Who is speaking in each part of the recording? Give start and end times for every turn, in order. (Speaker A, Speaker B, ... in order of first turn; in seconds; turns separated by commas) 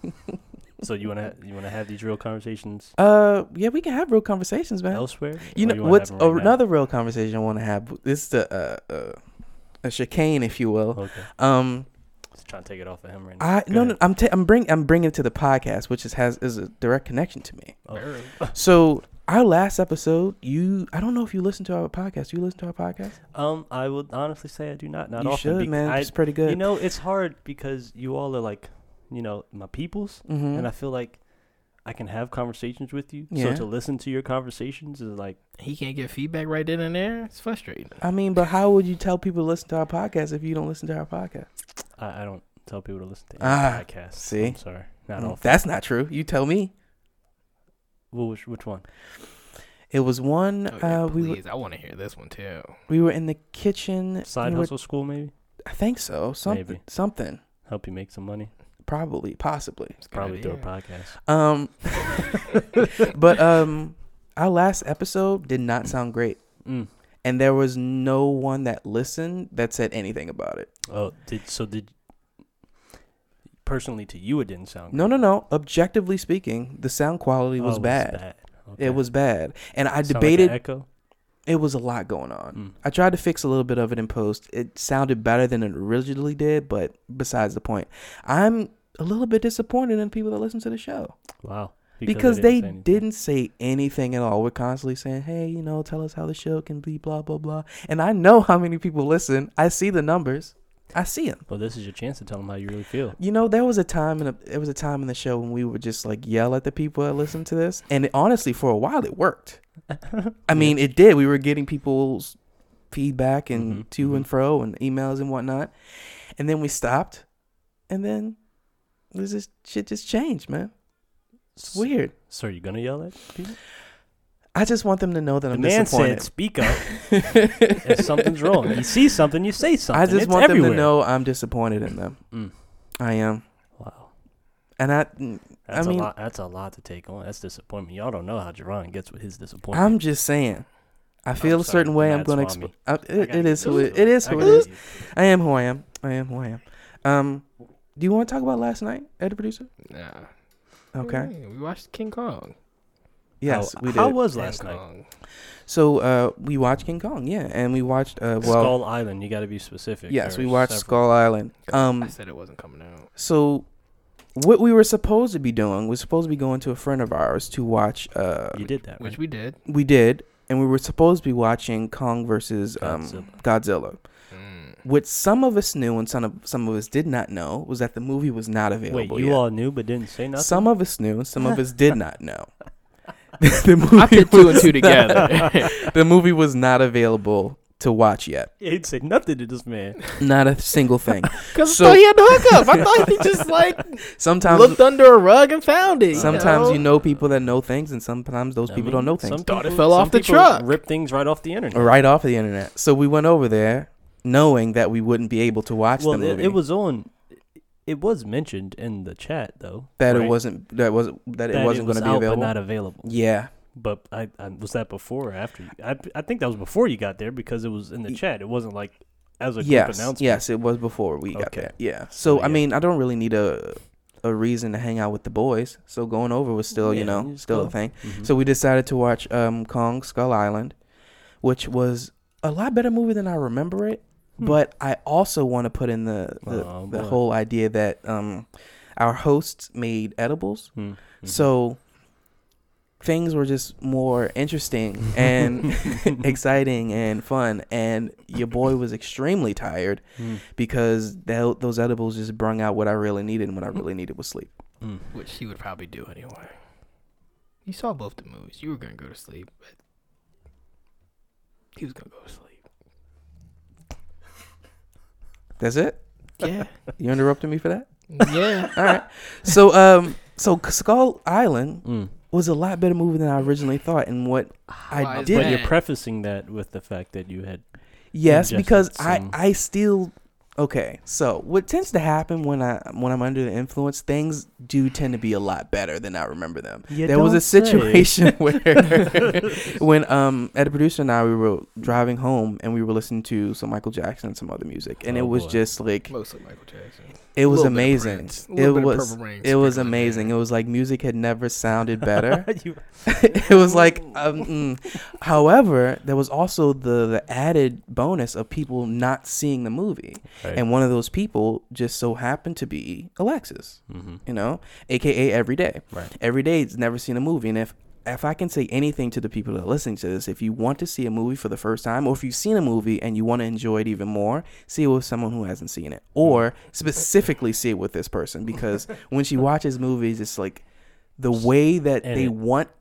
Speaker A: 0.8-2.9, Speaker B: 3.0-9.2, Speaker A: 4.9-6.6, Speaker B: 9.8-11.9, Speaker A: 10.9-11.3, Speaker A: 12.3-14.0, Speaker B: 13.4-17.9, Speaker A: 17.9-18.5, Speaker C: 17.9-18.3, Speaker B: 18.5-23.2, Speaker A: 23.3-35.4, Speaker B: 25.2-26.6, Speaker B: 30.2-30.7, Speaker B: 33.3-33.6, Speaker C: 35.6-38.0, Speaker B: 38.0-41.5, Speaker A: 42.0-45.6, Speaker B: 43.4-44.6, Speaker B: 45.2-46.7, Speaker A: 48.1-48.8, Speaker B: 49.9-51.4, Speaker C: 50.7-52.8, Speaker B: 52.9-54.7, Speaker A: 54.3-55.3, Speaker B: 55.6-57.4, Speaker A: 56.5-56.8, Speaker A: 57.6-58.5, Speaker B: 58.8-60.0, Speaker C: 60.0-60.7, Speaker A: 60.1-61.2, Speaker B: 61.2-66.6, Speaker A: 62.2-62.8, Speaker A: 66.6-66.9, Speaker B: 67.2-70.7, Speaker A: 70.9-72.0, Speaker A: 73.6-75.2, Speaker B: 74.9-78.2, Speaker A: 77.6-79.0, Speaker B: 78.8-80.6, Speaker A: 80.0-80.8, Speaker B: 81.5-91.2, Speaker A: 91.4-93.0, Speaker B: 92.0-101.4, Speaker A: 101.5-103.2, Speaker B: 103.2-109.6, Speaker A: 110.0-110.8, Speaker B: 110.5-112.4, Speaker B: 112.9-115.7, Speaker A: 113.5-114.2, Speaker B: 116.4-117.2, Speaker B: 117.9-118.4, Speaker B: 119.1-120.7, Speaker A: 121.5-123.6, Speaker B: 121.7-122.1, Speaker B: 124.5-128.8, Speaker A: 125.5-131.0, Speaker B: 129.9-132.3, Speaker A: 132.3-132.9, Speaker B: 132.9-133.4, Speaker A: 133.8-134.1, Speaker B: 134.8-136.1, Speaker A: 135.7-140.0, Speaker B: 139.7-140.7, Speaker B: 141.2-149.7, Speaker A: 141.4-145.0, Speaker C: 143.6-144.7, Speaker C: 149.8-150.3, Speaker B: 150.9-151.3, Speaker C: 151.0-152.6, Speaker B: 153.4-154.2, Speaker A: 153.4-154.8, Speaker C: 154.3-155.1, Speaker B: 155.7-158.8, Speaker A: 158.4-161.1, Speaker B: 160.1-162.1, Speaker C: 161.7-163.1, Speaker B: 163.2-163.7, Speaker B: 164.3-168.7, Speaker A: 168.5-169.2, Speaker C: 169.0-169.6, Speaker B: 169.6-174.0, Speaker A: 172.8-173.4, Speaker C: 174.3-174.8, Speaker B: 174.8-179.4, Speaker A: 178.9-180.7, Speaker B: 180.3-182.5, Speaker B: 183.4-188.5, Speaker C: 183.9-185.7, Speaker A: 185.1-185.8, Speaker A: 188.6-190.2, Speaker B: 190.2-192.8, Speaker C: 191.5-196.8, Speaker B: 194.1-194.8, Speaker A: 196.1-197.0, Speaker B: 196.1-199.4, Speaker A: 198.7-202.0, Speaker C: 199.4-200.7, Speaker B: 201.7-206.6, Speaker A: 206.0-210.4, Speaker B: 210.0-213.5, Speaker A: 211.5-220.5, Speaker B: 219.6-230.8, Speaker A: 221.3-222.7, Speaker A: 226.8-228.3, Speaker B: 231.4-241.8, Speaker A: 236.4-237.2, Speaker A: 240.8-241.5, Speaker B: 243.0-254.5, Speaker A: 250.2-250.4, Speaker A: 254.8-255.1, Speaker C: 255.1-256.6, Speaker C: 257.6-259.7, Speaker C: 261.8-262.6, Speaker B: 265.6-266.0, Speaker C: 266.4-266.8, Speaker B: 267.0-267.9, Speaker C: 268.1-269.0, Speaker B: 268.7-275.7, Speaker A: 271.8-272.1, Speaker A: 274.7-277.6, Speaker C: 274.9-275.8, Speaker B: 278.1-296.1, Speaker A: 278.2-279.3, Speaker A: 286.9-288.8, Speaker A: 295.1-295.6, Speaker C: 296.1-300.3, Speaker B: 297.4-330.6, Speaker A: 302.0-303.7, Speaker A: 313.9-314.2, Speaker B: 331.2-332.7, Speaker A: 332.0-332.4